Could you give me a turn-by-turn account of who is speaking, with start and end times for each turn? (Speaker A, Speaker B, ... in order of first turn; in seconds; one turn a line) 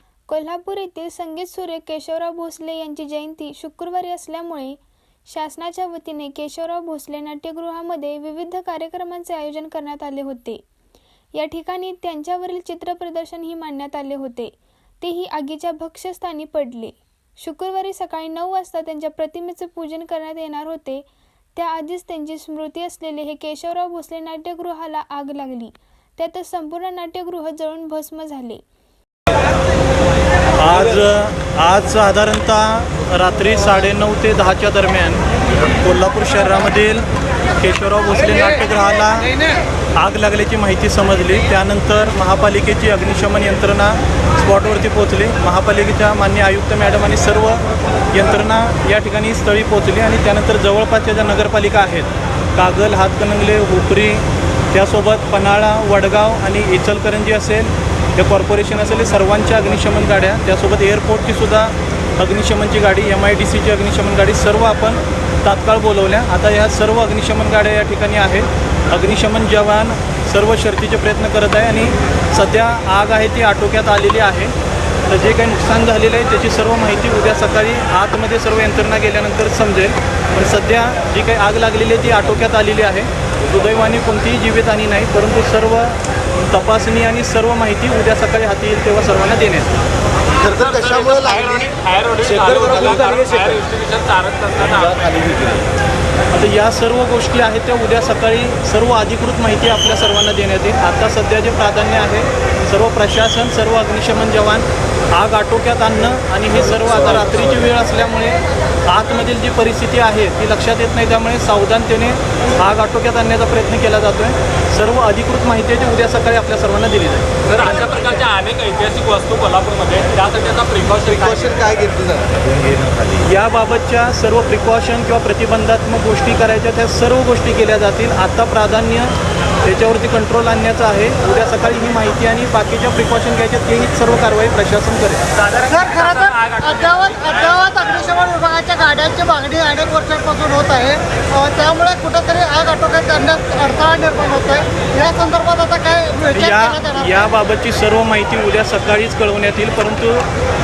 Speaker A: 0.3-10.6
Speaker A: 11.3-28.6
Speaker B: 30.6-39.4
Speaker B: 40.0-74.5
Speaker B: 75.1-89.7
Speaker C: 90.3-91.7
Speaker D: 90.4-95.4
Speaker C: 92.2-93.6
Speaker C: 95.0-95.7
Speaker B: 96.3-117.7
Speaker D: 117.5-121.6
Speaker C: 121.1-123.2
Speaker B: 123.2-135.2
Speaker D: 135.4-137.9
Speaker E: 135.7-147.2
Speaker B: 146.3-150.3